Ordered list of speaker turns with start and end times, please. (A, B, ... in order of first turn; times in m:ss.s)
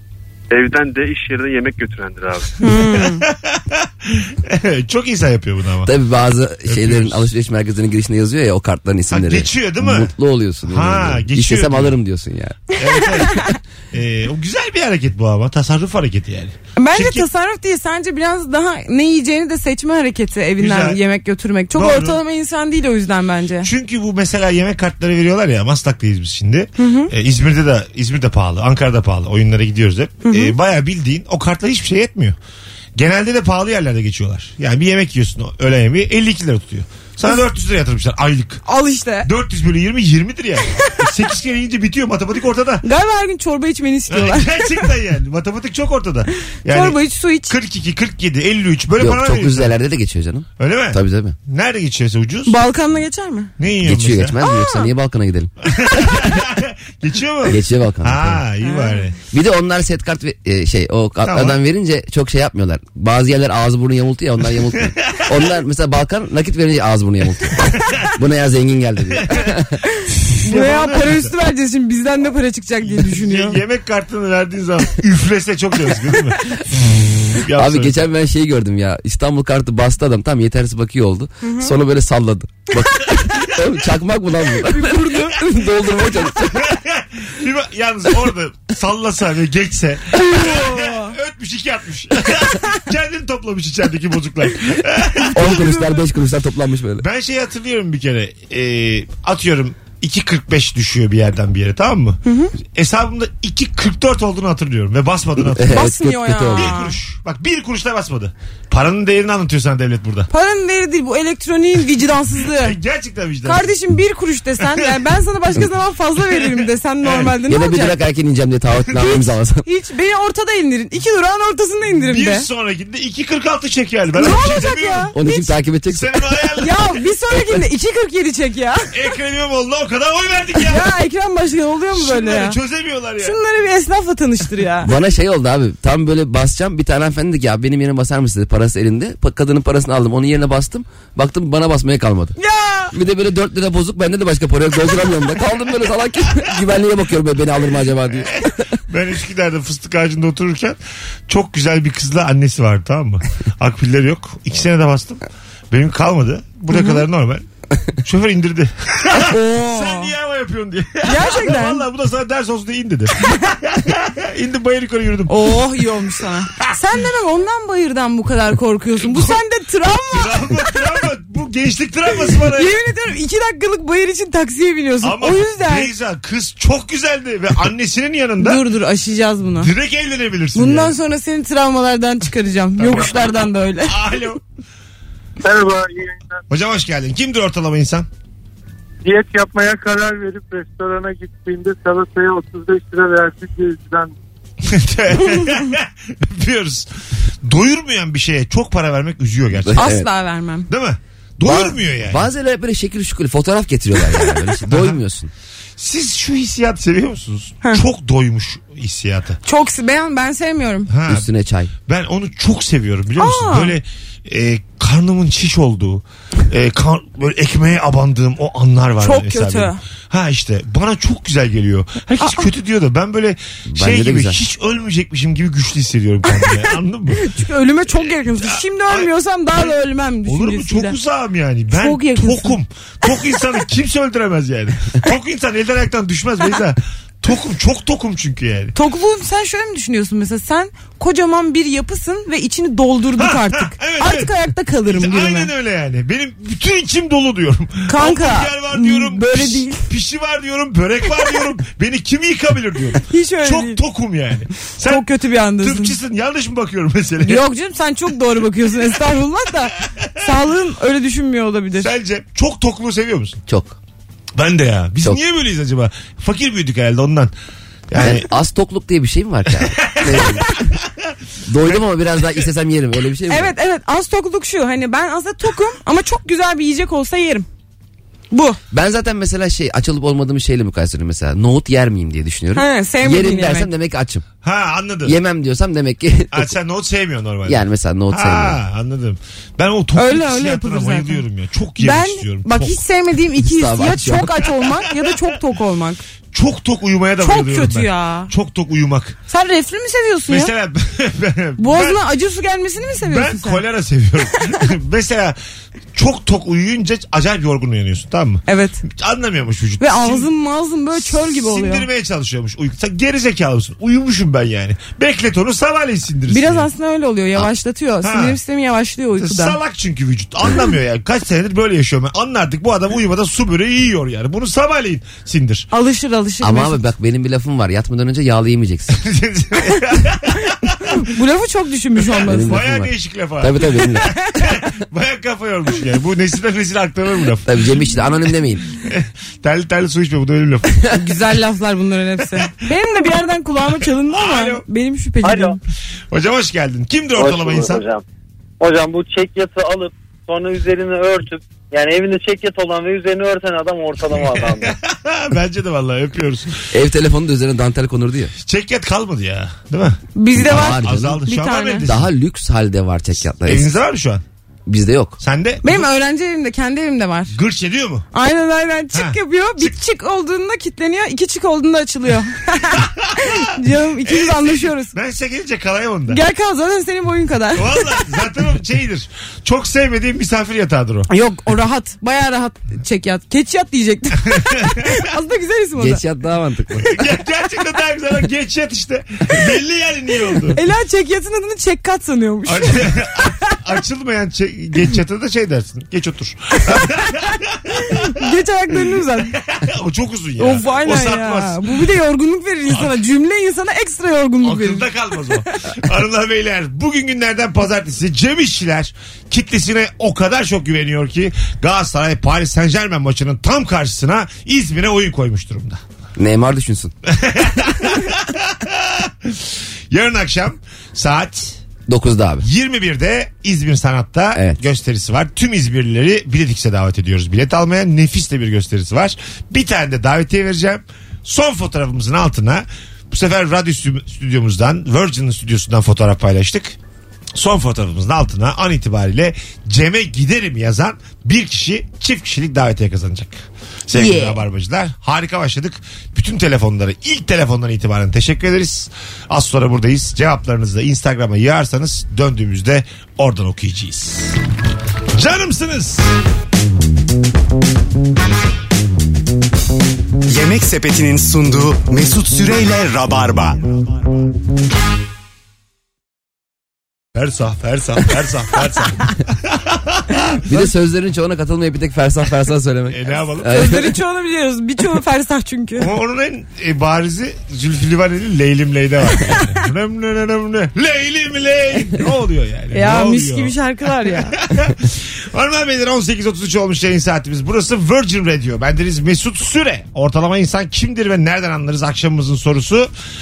0:00.5-0:02.6 A
0:02.6-0:03.3 B
0:02.7-0:05.9 C
0:05.8-0:12.7 D
0:06.7-0:07.3 C
0:09.1-0:10.1 C
0:10.7-0:12.0 C
0:12.7-0:17.2 C
0:13.1-0:13.5 B
0:16.8-0:23.7 B
0:20.6-0:21.0 C
0:21.7-0:22.2 C
0:23.6-0:32.4 C
0:26.8-0:27.1 B
0:30.2-0:30.5 B
0:33.0-0:38.6 C
0:38.7-0:39.3 B
0:39.2-0:42.8 C
0:42.8-0:44.9 B
0:44.1-0:49.8 C
0:46.7-0:47.6 B
0:49.0-0:51.4 D
0:50.6-0:52.6 C
0:52.5-0:53.5 B
0:53.6-0:54.4 C
0:53.8-0:56.3 D
0:54.4-0:54.9 B
0:55.6-0:59.2 C
0:57.5-0:58.4 D
0:58.6-0:59.0 B
0:59.3-1:09.8 D
1:01.2-1:01.6 C
1:09.2-1:09.5 C
1:09.9-1:13.6 B
1:10.3-1:11.3 C
1:12.9-1:18.1 C
1:17.5-1:26.7 D
1:21.4-1:21.7 B
1:24.7-1:25.6 B
1:26.5-1:35.6 C
1:30.2-1:31.1 B
1:35.2-1:36.0 B
1:35.4-1:37.0 D
1:37.0-1:42.2 C
1:42.2-1:42.5 B
1:42.7-1:45.9 C
1:45.4-1:46.7 D
1:45.7-1:47.0 B
1:46.5-1:50.3 C
1:50.3-1:52.8 B
1:52.6-1:53.7 C
1:53.4-1:58.0 B
1:57.0-1:57.4 C
1:57.5-1:59.6 D
1:58.9-1:59.2 C
1:59.6-2:02.5 B
2:02.1-2:05.1 C
2:04.2-2:05.5 B
2:05.1-2:06.1 D
2:05.9-2:06.8 C
2:06.6-2:08.9 B
2:08.9-2:10.9 C
2:10.6-2:12.6 B
2:12.0-2:13.4 C
2:13.2-2:14.9 B
2:14.8-2:22.3 D
2:22.4-2:22.9 B
2:22.9-2:28.6 D
2:28.1-2:37.4 C
2:36.7-2:37.0 B
2:38.0-2:45.5 C
2:39.1-2:40.1 B
2:41.0-2:41.8 B
2:43.2-2:43.5 B
2:45.3-2:50.8 B
2:49.0-2:49.4 C
2:50.1-2:52.8 C
2:52.5-2:55.9 B
2:55.0-2:58.6 C
2:58.4-2:59.7 B
2:59.6-3:00.9 C
3:00.6-3:03.9 B
3:02.8-3:04.4 C
3:05.4-3:06.4 E
3:06.5-3:08.1 C
3:09.0-3:14.2 E
3:14.6-3:16.9 C
3:17.4-3:19.9 C
3:19.6-3:20.1 D
3:19.8-3:20.7 B
3:20.7-3:22.3 C
3:21.4-3:25.3 D
3:24.6-3:25.0 C
3:25.8-3:29.4 C
3:29.4-3:30.9 B
3:30.9-3:31.3 C
3:31.1-3:31.7 D
3:31.9-3:47.3 C
3:33.2-3:33.8 B
3:39.0-3:39.8 B
3:42.2-3:42.5 B
3:43.7-3:44.4 D
3:47.2-3:51.0 B
3:48.0-3:49.7 C
3:50.3-3:58.8 C
3:51.7-3:52.6 B
3:58.8-4:05.5 B
4:03.2-4:04.3 C
4:04.9-4:15.1 C
4:07.9-4:09.8 B
4:13.0-4:13.8 B
4:14.8-4:16.0 B
4:15.6-4:17.4 C
4:17.2-4:21.9 B
4:21.8-4:23.4 C
4:23.5-4:23.8 D
4:24.4-4:27.3 C
4:27.9-4:28.2 C
4:28.0-4:30.6 D
4:29.6-4:30.7 C
4:31.5-4:33.5 D
4:33.3-4:37.5 B
4:38.3-4:38.6 B
4:38.7-4:44.2 D
4:42.6-4:43.7 B
4:44.4-4:45.2 C
4:45.0-4:46.5 D
4:46.3-4:52.8 C
4:47.5-4:48.6 D
4:50.0-4:51.2 B
4:51.8-4:56.0 B
4:53.4-4:54.3 D
4:56.3-4:59.2 C
4:57.2-4:58.3 B
4:59.3-5:00.5 B
5:00.3-5:02.0 C
5:01.6-5:03.6 B
5:03.1-5:05.4 C
5:05.9-5:10.3 C
5:08.5-5:08.8 B
5:09.8-5:11.9 B
5:11.0-5:16.7 C
5:16.3-5:19.6 B
5:18.0-5:18.4 C
5:19.2-5:25.7 C
5:25.7-5:26.8 B
5:26.4-5:29.0 D
5:28.9-5:30.9 C
5:30.8-5:32.6 B
5:32.1-5:37.6 C
5:32.2-5:34.1 D
5:37.5-5:38.7 D
5:38.8-5:41.0 C
5:40.9-5:45.6 B
5:44.1-5:44.6 C
5:45.2-5:45.6 F
5:46.1-5:47.8 C
5:47.2-5:48.0 F
5:48.6-5:54.8 F
5:54.2-5:56.6 C
5:56.7-5:58.3 D
5:58.4-6:02.1 C
6:00.2-6:01.8 B
6:00.4-6:01.2 D
6:01.8-6:03.7 D
6:03.4-6:04.2 C
6:04.7-6:05.2 D
6:05.2-6:05.8 C
6:05.6-6:07.3 B
6:07.3-6:08.1 C
6:08.1-6:14.9 B
6:08.9-6:09.7 C
6:12.8-6:13.4 C
6:14.0-6:16.2 C
6:16.1-6:18.0 B
6:17.6-6:21.1 C
6:21.1-6:26.0 B
6:24.3-6:25.0 C
6:25.8-6:26.9 D
6:26.9-6:30.6 C
6:30.5-6:33.6 B
6:32.5-6:38.1 C
6:36.6-6:39.4 B
6:39.3-6:41.8 C
6:40.4-6:45.4 B
6:44.4-6:55.8 C
6:56.2-6:56.9 D
6:57.1-7:01.6 C
7:01.9-7:02.5 D
7:02.4-7:16.8 C
7:17.4-7:23.4 C
7:23.9-7:34.4 C
7:35.1-7:36.1 C
7:40.3-7:43.8 G
7:47.1-7:50.6 C
7:50.4-7:54.0 D
7:52.9-7:53.7 C
7:53.5-7:55.9 B
7:55.8-8:03.6 C
8:02.7-8:04.4 B
8:04.1-8:12.9 C